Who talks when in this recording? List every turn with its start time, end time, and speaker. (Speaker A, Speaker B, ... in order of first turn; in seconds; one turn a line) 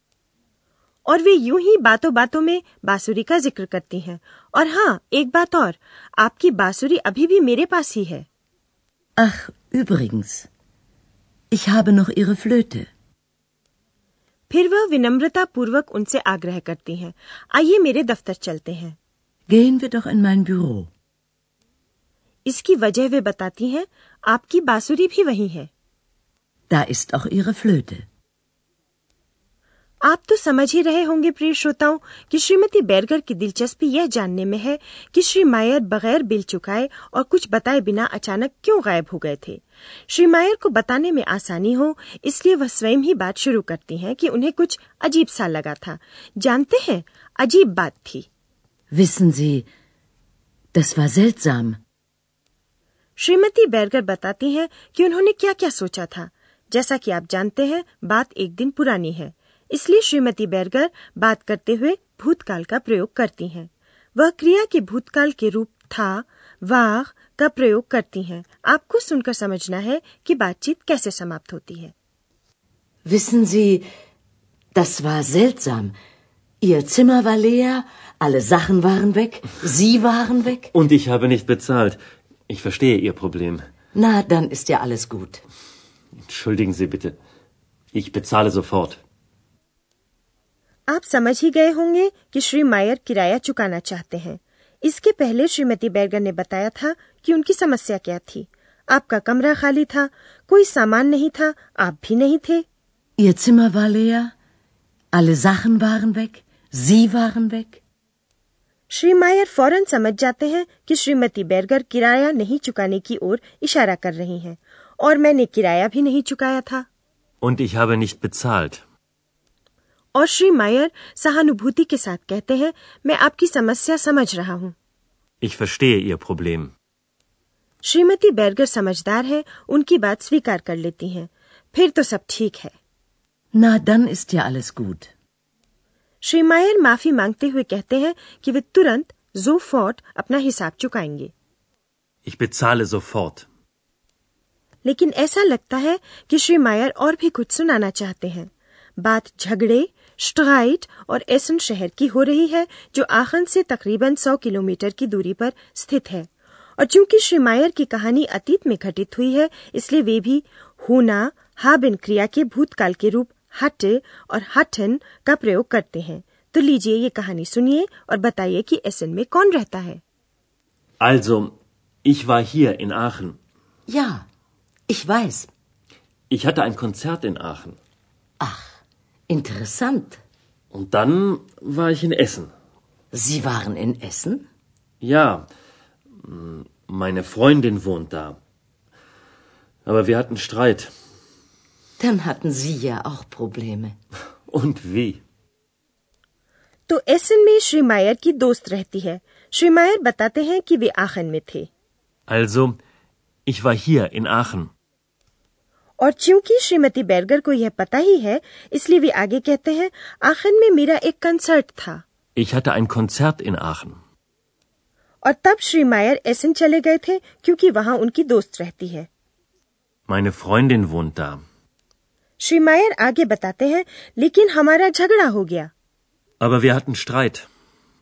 Speaker A: 1.1-8.3
Speaker B: 9.2-10.5
Speaker B: 11.5-12.9
Speaker A: 14.5-19.0
Speaker B: 19.5-20.9
Speaker A: 22.5-25.7
Speaker B: 26.7-28.1
Speaker A: 30.1-48.3
Speaker B: 48.9-49.7
Speaker B: 50.7-51.8
Speaker A: 53.2-71.9
Speaker B: 73.1-73.9
Speaker B: 74.8-75.9
Speaker B: 76.6-80.7
Speaker C: 80.7-82.0
Speaker C: 82.5-83.6
Speaker B: 84.0-85.4
Speaker C: 86.3-87.2
Speaker C: 87.9-89.0
Speaker A: 90.9-102.7
Speaker B: 103.2-104.3
Speaker B: 105.1-107.8
Speaker A: 108.9-116.9
Speaker C: 117.4-118.8
Speaker A: 120.2-124.8
Speaker C: 125.4-126.7
Speaker A: 127.8-132.8
Speaker B: 133.5-135.1
Speaker A: 136.2-141.3
Speaker C: 142.3-143.4
Speaker A: 144.8-170.0
Speaker C: 171.0-171.5
Speaker C: 172.1-173.4
Speaker B: 173.9-174.2
Speaker B: 174.9-175.5
Speaker C: 176.3-177.8
Speaker B: 178.4-178.7
Speaker B: 179.3-180.2
Speaker C: 180.7-182.5
Speaker B: 183.1-184.4
Speaker C: 185.0-185.5
Speaker C: 186.2-188.4
Speaker C: 189.9-190.9
Speaker B: 192.0-193.9
Speaker C: 194.5-195.2
Speaker A: 196.9-201.7
Speaker C: 202.3-202.8
Speaker C: 203.5-204.7
Speaker A: 206.0-212.0
Speaker C: 212.4-214.0
Speaker A: 215.2-219.1
Speaker C: 220.1-221.4
Speaker A: 222.4-225.7
Speaker C: 226.4-227.4